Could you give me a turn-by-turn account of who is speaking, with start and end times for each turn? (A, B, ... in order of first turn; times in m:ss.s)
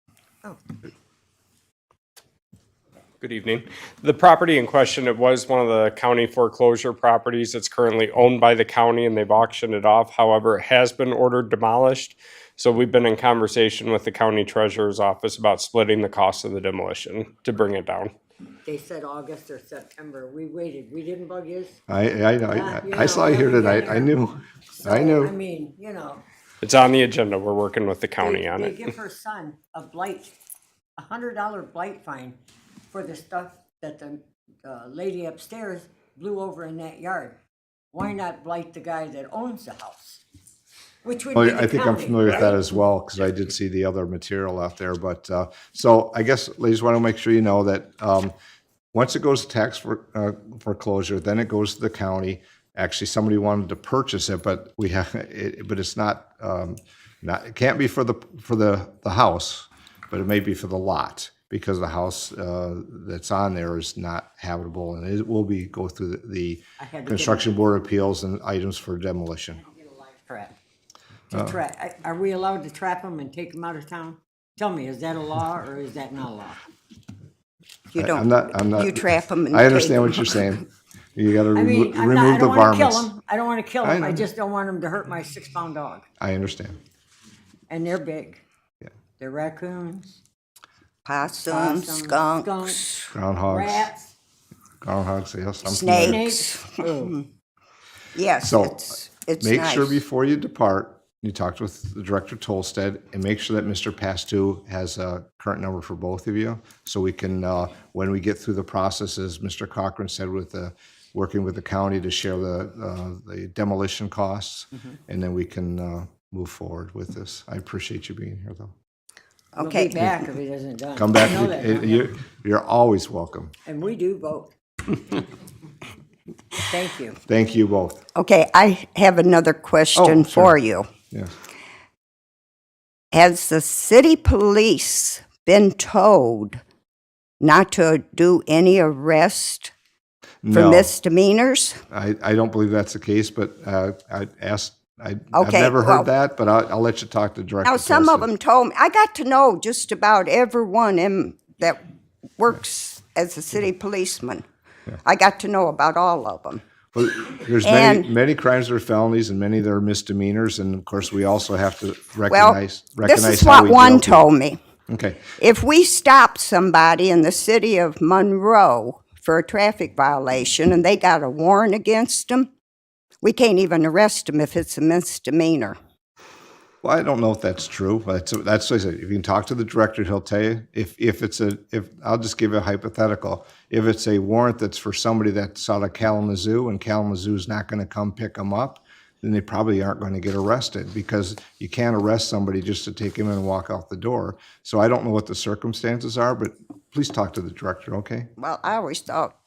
0:03.2-0:18.1 A
0:18.6-0:21.8 B
0:21.9-0:25.3 C
0:22.5-0:24.2 B
0:24.7-0:26.2 B
0:26.6-0:28.8 A
0:28.2-0:30.3 B
0:31.0-0:32.4 B
0:32.9-0:37.4 B
0:37.9-0:40.2 B
0:41.0-0:42.7 B
0:41.3-0:48.3 C
0:48.9-1:09.6 C
1:06.8-1:07.5 B
1:09.6-1:10.5 B
1:11.3-1:16.6 B
1:17.9-1:20.5 D
1:17.9-1:20.6 C
1:21.2-1:23.1 C
1:21.5-1:26.0 B
1:23.8-1:24.2 C
1:26.2-1:26.8 C
1:27.7-1:28.4 B
1:29.2-1:30.2 B
1:31.0-1:32.7 D
1:31.4-1:34.1 B
1:33.1-1:33.9 C
1:34.8-1:36.2 C
1:35.6-1:36.7 D
1:35.9-1:37.2 B
1:38.1-1:40.0 D
1:38.4-1:58.7 C
1:59.5-2:00.2 D
1:59.6-2:02.1 B
2:01.0-2:03.5 C
2:03.6-2:05.0 B
2:06.6-2:07.2 B
2:07.3-2:08.0 C
2:08.1-2:10.9 D
2:10.0-2:10.6 C
2:13.1-2:16.6 D
2:17.4-2:19.7 D
2:20.4-2:20.9 C
2:20.5-2:21.8 D
2:21.9-2:28.3 C
2:25.3-2:26.1 D
2:27.6-2:31.8 D
2:32.4-2:34.4 D
2:35.0-2:36.6 D
2:36.9-2:44.2 C
2:37.6-2:38.1 D
2:42.3-2:44.6 D
2:44.9-2:45.3 C
2:45.3-2:52.5 D
2:53.2-2:55.8 D
2:56.8-3:18.3 C
3:18.4-3:19.3 D